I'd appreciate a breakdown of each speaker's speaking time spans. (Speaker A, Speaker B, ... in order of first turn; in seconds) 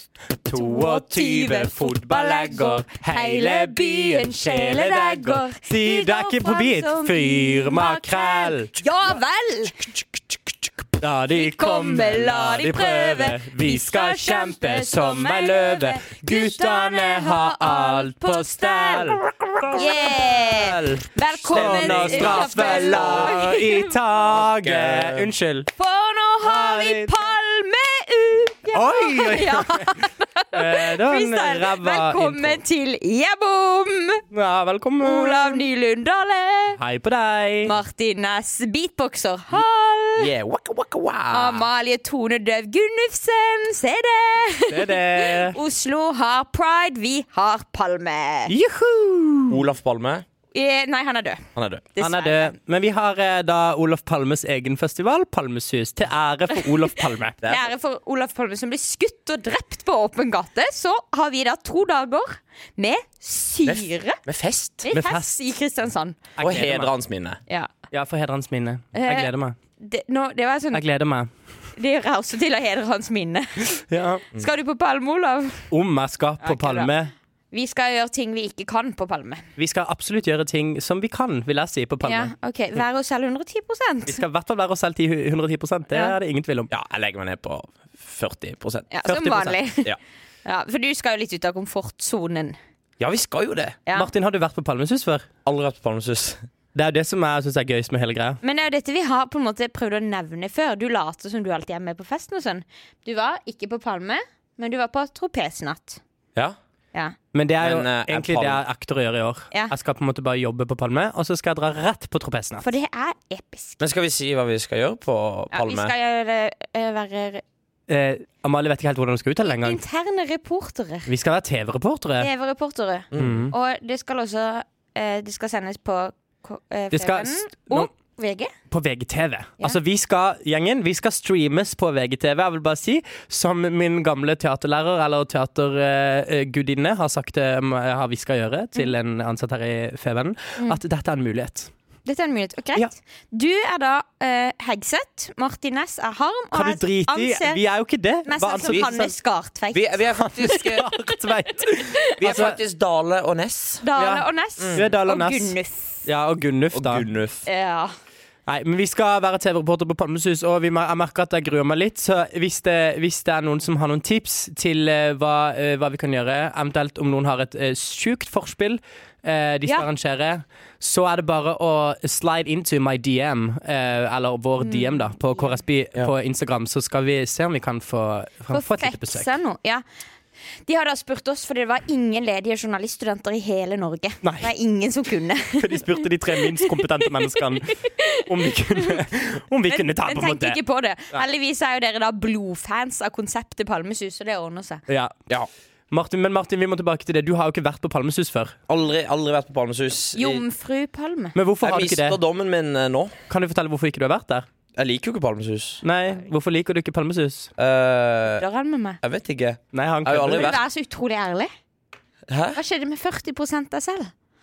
Speaker A: 0.4-8.7, 11.0-25.7, 26.4-27.2, 28.7-32.6, 34.3-35.6, 36.8-37.7, 44.7-45.6, 48.5-49.6, 52.0-57.4, 64.9-65.4, 66.4-66.9, 67.9-69.5, 70.7-71.3, 73.9-74.2, 75.7-77.1, 79.6-82.3, 84.0-86.7, 89.1-89.6, 93.9-95.3, 96.7-98.4, 107.3-112.7, 117.9-119.8, 121.1-122.3, 123.1-123.5, 126.9-127.9, 128.7-141.7, 146.5-149.1, 150.2-152.6, 154.0-157.1, 158.4-179.3, 184.2-184.5, 185.6-190.6, 194.9-195.1, 195.9-198.6, 201.3-202.2, 203.3-204.5, 205.8-207.5, 209.7-210.5
Speaker B: 0.5-9.9, 11.3-19.2, 19.7-24.0, 25.8-34.2, 35.0-36.8, 37.6-40.3, 41.3-48.5, 50.5-52.5, 57.4-64.2, 64.8-66.3, 68.9-70.8, 71.7-75.7, 76.4-76.9, 77.5-79.5, 82.0-84.2, 85.9-86.2, 88.9-89.9, 90.4-92.6, 93.8-94.1, 98.4-106.0, 112.6-113.8, 115.5-117.4, 119.4-121.1, 122.2-128.5, 142.0-147.6, 148.2-150.9, 151.8-152.5, 153.8-156.1, 157.4-157.9, 174.6-175.6, 178.5-179.8, 180.6-189.0, 189.7-194.8, 200.2-201.3, 208.3-209.0, 210.3-211.5, 212.5-214.1
Speaker C: 21.4-23.4, 24.4-25.3, 40.2-41.7, 49.5-50.2, 51.5-51.9, 57.4-57.7, 63.7-64.9, 66.4-67.4, 86.7-89.1, 93.0-93.8, 95.4-96.4, 107.6-108.6, 113.8-115.9, 123.1-123.5, 149.7-150.9, 152.2-153.8, 154.6-154.9, 156.7-157.5, 198.7-200.4, 201.6-203.1, 204.8-205.8, 207.6-208.4, 209.0-210.6, 212.3-212.6